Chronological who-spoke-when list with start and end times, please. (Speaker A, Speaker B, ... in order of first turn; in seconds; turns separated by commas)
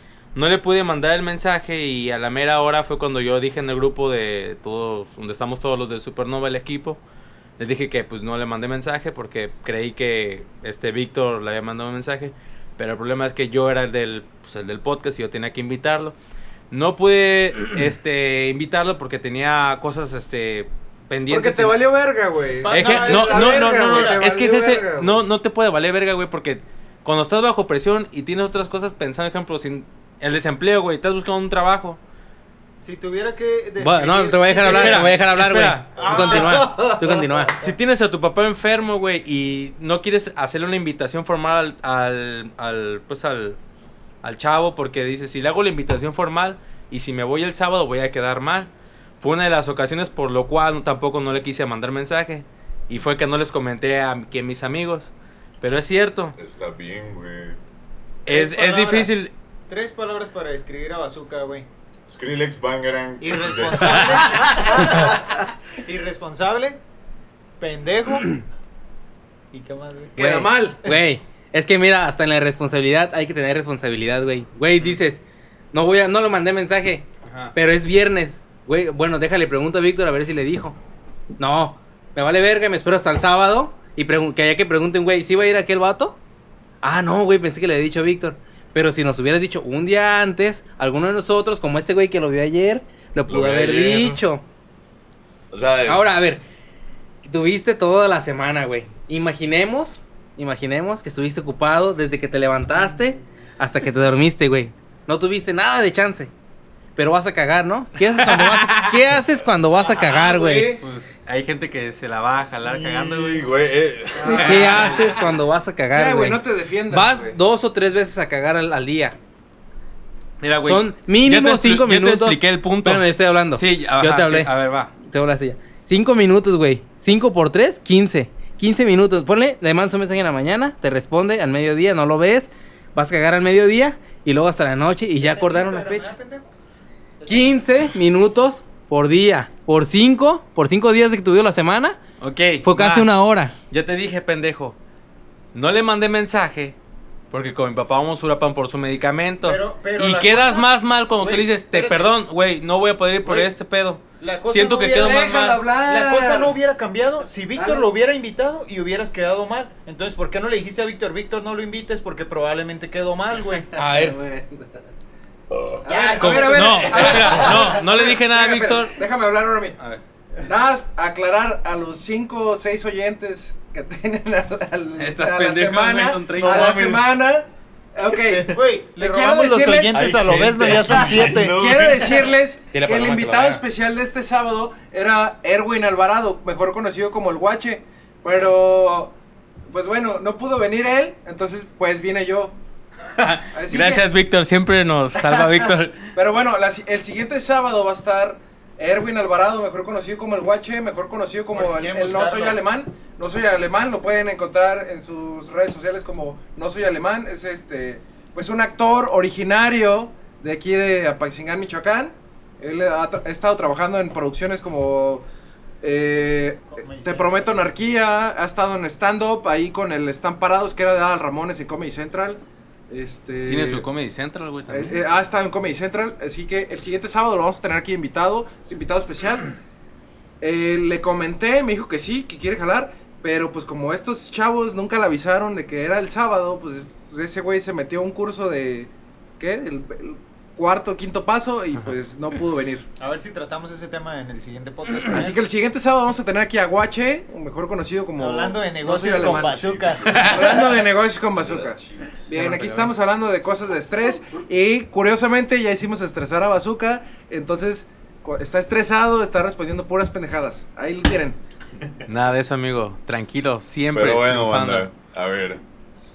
Speaker A: 0.3-7.0, Speaker A: 7.6-16.1, Speaker A: 16.7-21.8, Speaker B: 21.3-25.2, Speaker C: 22.6-24.3, Speaker A: 22.7-32.0, Speaker C: 32.8-35.2, Speaker D: 33.8-37.5, Speaker A: 34.6-36.5, Speaker C: 35.9-36.8, Speaker B: 36.5-37.1, Speaker A: 37.5-43.6, Speaker A: 44.2-48.7, Speaker A: 49.2-56.4, Speaker E: 56.4-57.6, Speaker A: 58.2-59.3, Speaker C: 58.3-59.1, Speaker C: 59.7-61.7, Speaker E: 62.1-64.5, Speaker C: 63.2-65.2, Speaker A: 64.0-64.5, Speaker C: 65.8-66.8, Speaker C: 67.6-68.4, Speaker C: 69.5-71.0, Speaker B: 70.2-70.8, Speaker D: 70.8-75.2, Speaker D: 75.7-80.8, Speaker A: 77.2-77.5, Speaker D: 81.4-86.2, Speaker D: 86.8-94.4, Speaker E: 93.3-94.2, Speaker E: 95.5-96.1, Speaker D: 95.9-96.4, Speaker D: 97.2-106.3, Speaker D: 107.0-110.8, Speaker C: 110.0-110.8, Speaker A: 110.8-113.5, Speaker E: 112.6-115.0, Speaker B: 114.2-115.0, Speaker A: 114.2-115.1, Speaker D: 114.3-119.2, Speaker B: 115.9-117.4, Speaker A: 120.4-124.9, Speaker D: 120.6-136.1, Speaker C: 135.2-136.5, Speaker C: 137.2-137.7, Speaker D: 137.3-142.0, Speaker A: 142.2-143.1, Speaker D: 142.6-143.5, Speaker A: 143.7-144.8, Speaker A: 145.5-146.8, Speaker A: 147.3-155.6, Speaker C: 149.4-152.1, Speaker C: 154.2-163.7, Speaker B: 155.0-156.5, Speaker B: 157.5-157.8, Speaker B: 163.7-164.8, Speaker D: 163.8-164.2, Speaker E: 165.5-165.8, Speaker B: 165.8-169.8, Speaker C: 165.8-167.8, Speaker A: 166.2-169.0, Speaker B: 170.4-180.0, Speaker A: 175.0-176.8, Speaker E: 176.3-177.1, Speaker E: 178.1-178.6, Speaker C: 178.5-181.6, Speaker E: 179.9-182.3, Speaker B: 180.9-189.1, Speaker D: 182.7-183.6, Speaker B: 189.7-192.6, Speaker A: 193.1-196.1, Speaker B: 193.5-194.1, Speaker B: 195.2-195.6, Speaker B: 196.1-215.2, Speaker C: 201.5-202.6, Speaker B: 215.8-223.8, Speaker C: 216.7-217.7, Speaker A: 223.5-225.0, Speaker B: 224.7-229.5, Speaker B: 230.4-242.8, Speaker C: 243.0-245.4, Speaker B: 245.1-261.4, Speaker C: 248.2-250.8, Speaker E: 248.9-252.3, Speaker A: 250.1-250.4, Speaker A: 252.3-252.9, Speaker A: 262.1-264.9, Speaker E: 263.9-265.6